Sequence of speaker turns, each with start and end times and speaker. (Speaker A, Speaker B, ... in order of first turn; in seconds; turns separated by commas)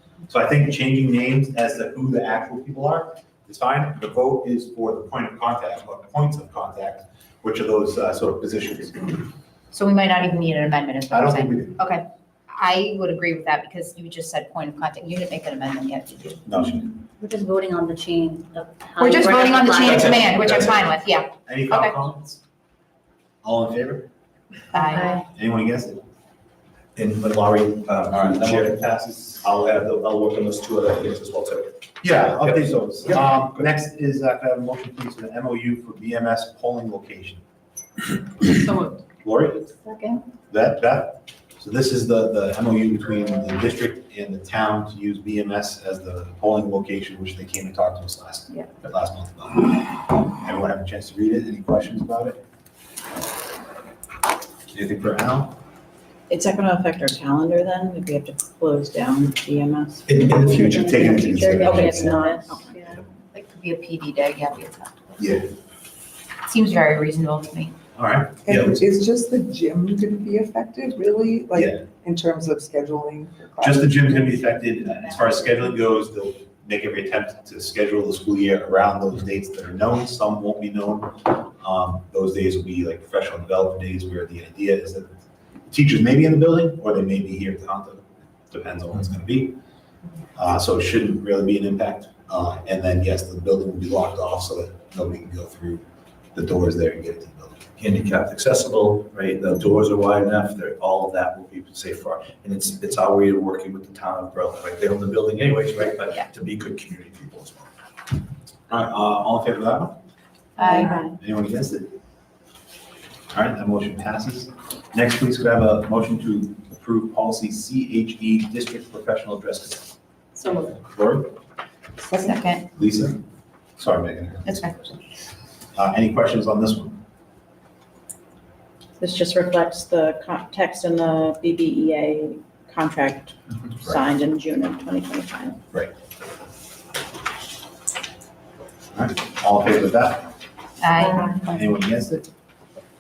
Speaker A: 0.3-9.3, Speaker B: 9.7-16.4, Speaker A: 11.1-11.8, Speaker A: 16.4-17.0, Speaker C: 17.2-20.4, Speaker B: 19.0-22.0, Speaker A: 19.9-20.7, Speaker D: 20.1-20.7, Speaker A: 21.4-22.4, Speaker A: 23.4-24.1, Speaker B: 24.7-25.2, Speaker C: 24.9-25.2, Speaker A: 25.2-26.0, Speaker D: 26.9-28.8, Speaker A: 28.1-29.9, Speaker D: 29.4-31.8, Speaker A: 32.0-37.4, Speaker D: 32.3-33.7, Speaker A: 39.2-39.7, Speaker A: 40.5-52.4, Speaker A: 54.7-55.6, Speaker E: 56.3-62.8, Speaker D: 60.1-60.7, Speaker A: 60.2-62.6, Speaker C: 60.4-63.0, Speaker B: 63.3-65.1, Speaker A: 65.2-65.5, Speaker B: 66.4-67.7, Speaker A: 68.0-68.5, Speaker F: 68.4-74.4, Speaker D: 68.5-68.8, Speaker A: 71.5-71.8, Speaker A: 73.6-89.5, Speaker A: 90.3-97.7, Speaker D: 97.8-107.7, Speaker A: 108.7-110.0, Speaker B: 110.6-110.9, Speaker E: 110.8-111.1, Speaker A: 111.0-111.9, Speaker A: 113.3-119.9, Speaker A: 120.7-121.4, Speaker B: 122.1-122.7, Speaker A: 122.7-123.2, Speaker A: 123.8-125.0, Speaker B: 124.4-124.7, Speaker A: 125.7-127.0, Speaker E: 129.0-135.6, Speaker A: 138.9-140.3, Speaker B: 140.8-141.5, Speaker A: 141.4-142.3